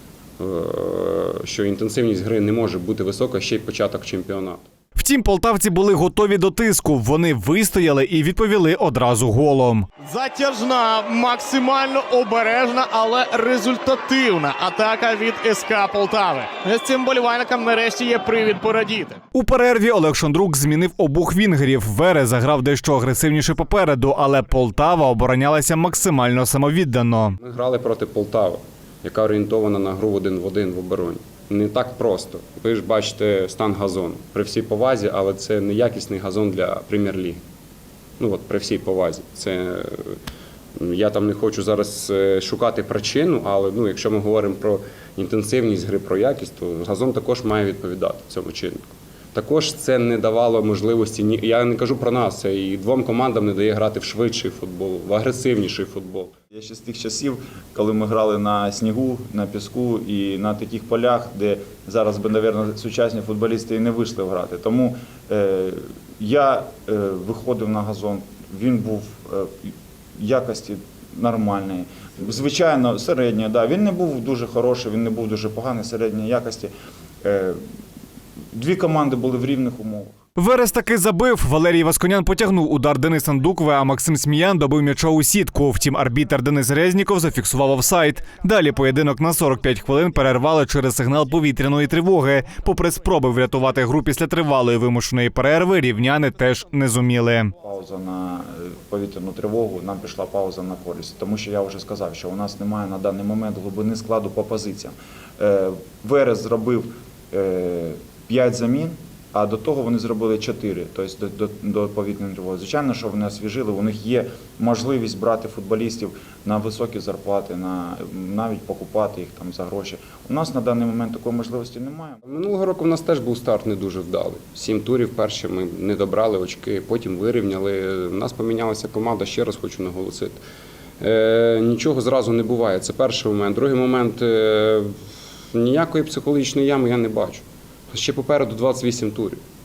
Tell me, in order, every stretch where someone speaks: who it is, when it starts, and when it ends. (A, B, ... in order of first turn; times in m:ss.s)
0:00.4-0:04.6 A
0:05.0-0:09.9 B
0:10.0-0:19.2 C
0:19.3-0:27.4 B
0:27.4-0:37.4 A
0:38.2-0:40.2 A
0:40.8-0:56.3 A
0:56.5-1:16.7 D
1:17.2-1:17.6 D
1:18.5-1:20.1 D
1:20.4-1:37.5 B
1:37.6-2:02.2 D
2:02.2-2:10.4 A
2:11.0-2:14.9 A
2:15.5-2:19.4 A